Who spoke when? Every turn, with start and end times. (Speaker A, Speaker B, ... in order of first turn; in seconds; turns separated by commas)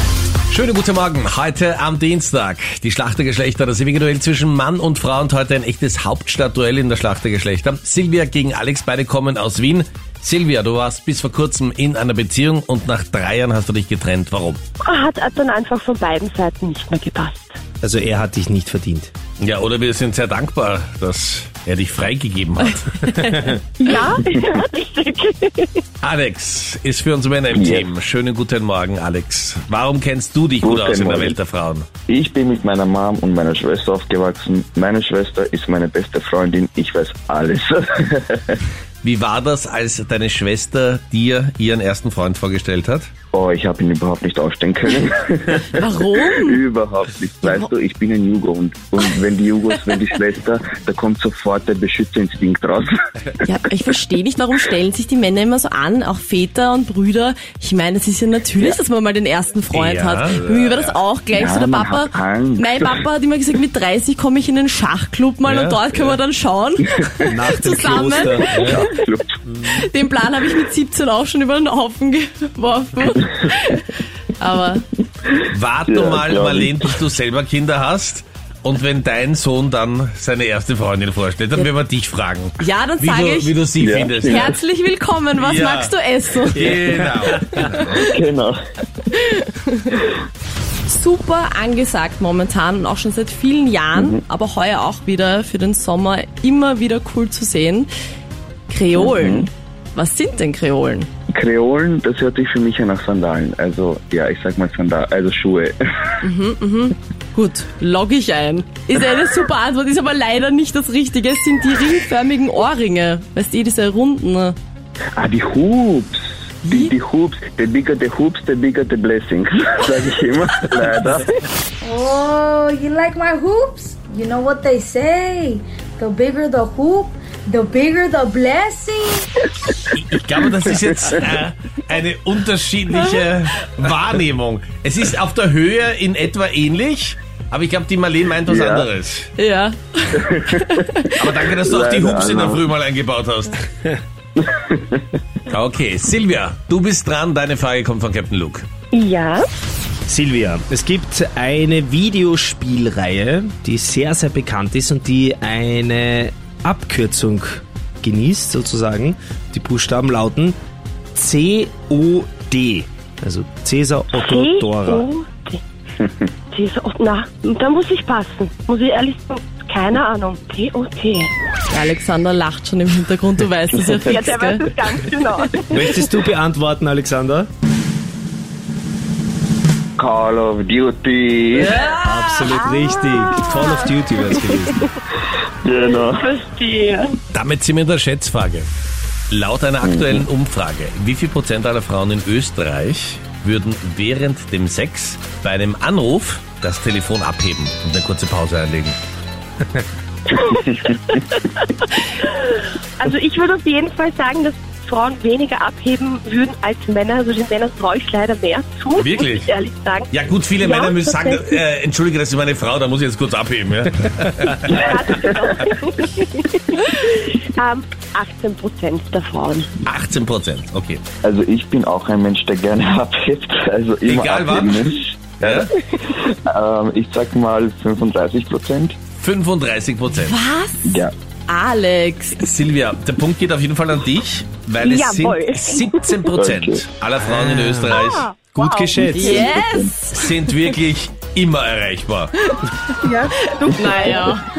Speaker A: 0.5-14.6, Speaker B: 14.8-17.6, Speaker C: 17.8-19.1, Speaker A: 19.4-23.1, Speaker D: 23.0-23.6, Speaker B: 23.8-25.8, Speaker A: 26.0-31.9, Speaker E: 27.5-27.9, Speaker E: 30.6-31.4, Speaker E: 32.1-38.5, Speaker A: 39.0-43.1, Speaker E: 43.3-53.3, Speaker D: 45.7-46.6, Speaker D: 47.4-47.7, Speaker D: 53.4-68.8, Speaker A: 59.7-61.0, Speaker E: 61.3-63.0, Speaker A: 65.4-66.1, Speaker C: 67.3-68.8, Speaker E: 68.2-69.3, Speaker A: 68.5-68.8, Speaker D: 69.6-74.8, Speaker A: 75.5-84.5, Speaker E: 75.9-76.8, Speaker D: 82.6-83.5, Speaker E: 83.8-84.5, Speaker D: 84.2-88.0, Speaker A: 85.4-85.9, Speaker A: 86.5-88.0, Speaker C: 86.5-87.7, Speaker E: 88.0-88.6, Speaker D: 89.1-90.0, Speaker D: 90.8-97.9, Speaker E: 94.0-94.2, Speaker D: 98.7-101.1, Speaker E: 98.9-99.5, Speaker E: 101.3-105.8, Speaker D: 106.2-114.5, Speaker E: 115.2-121.4, Speaker F: 121.8-129.3, Speaker A: 129.9-139.3, Speaker E: 138.4-138.9, Speaker D: 139.4-141.2, Speaker E: 140.2-140.7, Speaker A: 141.1-143.7, Speaker E: 141.6-142.7, Speaker E: 144.4-145.0, Speaker A: 145.5-148.7, Speaker B: 148.9-149.5, Speaker C: 150.1-160.6, Speaker C: 161.1-165.1, Speaker B: 164.1-165.6, Speaker B: 166.5-171.3, Speaker D: 171.7-174.7, Speaker B: 174.0-176.0, Speaker C: 175.7-177.5, Speaker E: 180.0-181.8, Speaker D: 181.6-182.6, Speaker C: 181.9-184.8, Speaker B: 182.5-184.9, Speaker E: 185.6-186.3, Speaker B: 185.8-187.2, Speaker A: 187.3-188.7, Speaker A: 189.3-199.0, Speaker E: 189.8-190.2, Speaker B: 200.3-211.6, Speaker A: 208.9-209.5, Speaker A: 210.1-215.4, Speaker B: 214.7-219.7, Speaker A: 219.8-221.0, Speaker E: 221.2-229.0, Speaker A: 224.0-225.7, Speaker A: 229.2-230.4, Speaker D: 230.2-232.4, Speaker E: 230.8-231.1, Speaker A: 232.4-238.3, Speaker B: 234.8-236.2, Speaker E: 236.3-236.8, Speaker C: 237.2-238.0, Speaker B: 237.9-239.3, Speaker C: 238.5-239.6, Speaker D: 239.1-240.6, Speaker E: 239.3-239.9, Speaker A: 240.1-242.3, Speaker B: 243.0-244.3, Speaker D: 243.4-244.5